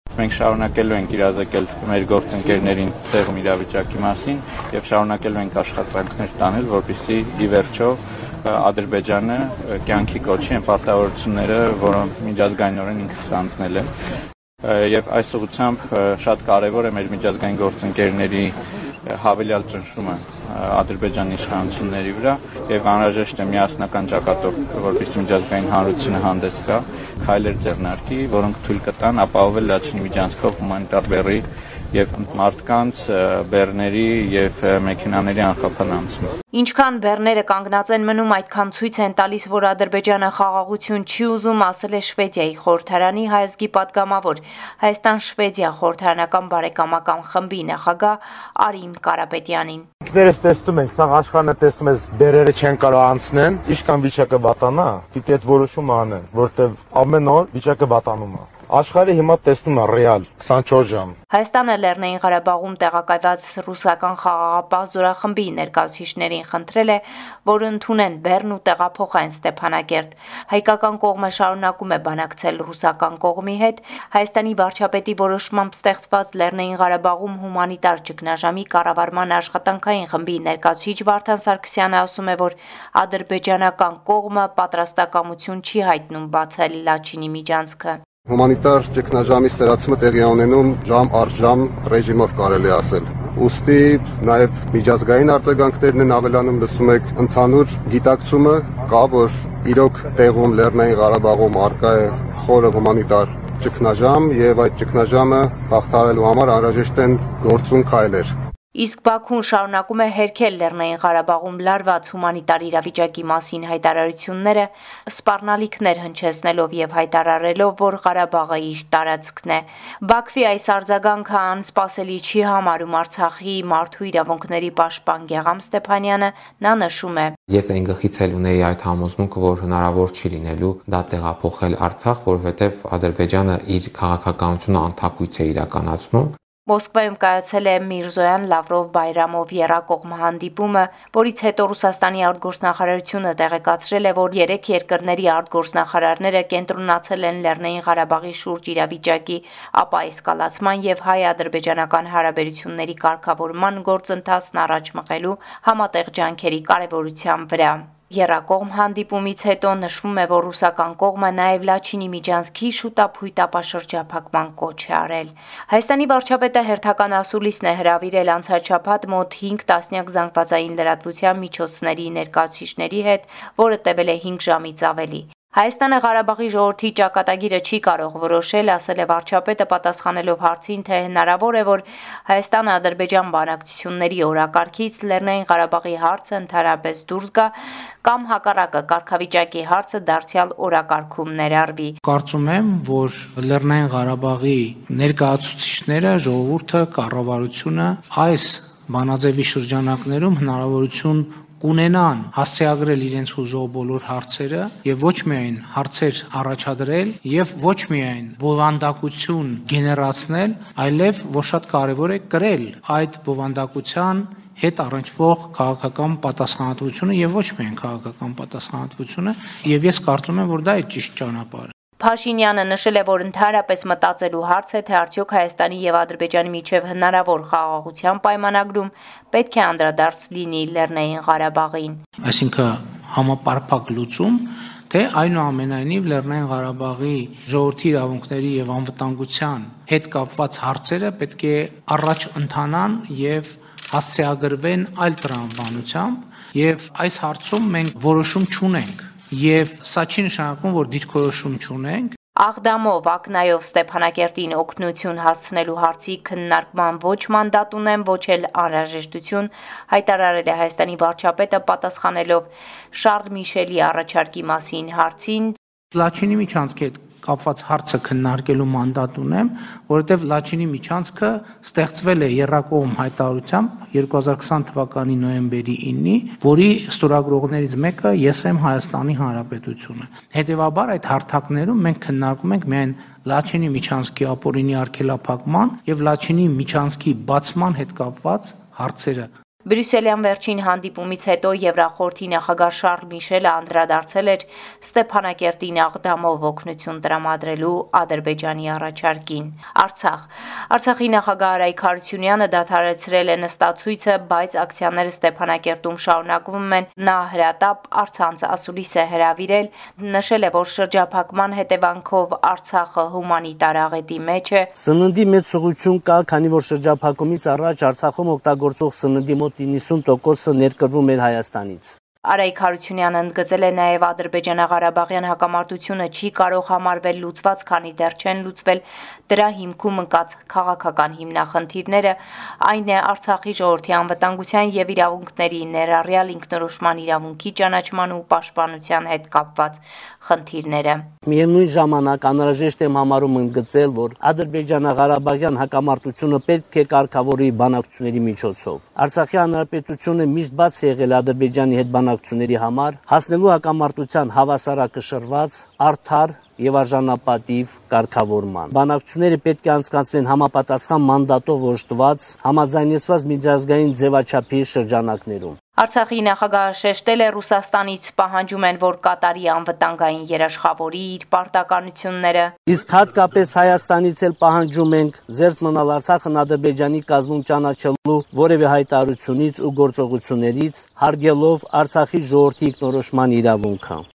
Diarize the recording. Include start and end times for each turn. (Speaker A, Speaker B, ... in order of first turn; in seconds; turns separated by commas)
Speaker A: 0.1-13.9, Speaker A: 14.6-18.5, Speaker A: 19.1-36.3, Speaker B: 36.5-49.8, Speaker C: 50.1-61.1, Speaker B: 61.3-88.0, Speaker D: 88.3-108.3, Speaker B: 108.7-127.3, Speaker E: 127.5-136.3, Speaker B: 136.7-192.0, Speaker F: 192.0-221.7, Speaker B: 222.0-232.0, Speaker F: 232.2-252.1, Speaker B: 252.4-265.5, Speaker F: 265.9-289.3, Speaker B: 289.7-314.7, Speaker G: 314.8-321.9, Speaker B: 322.2-341.0, Speaker G: 341.2-365.6, Speaker B: 365.8-372.5, Speaker G: 372.7-384.0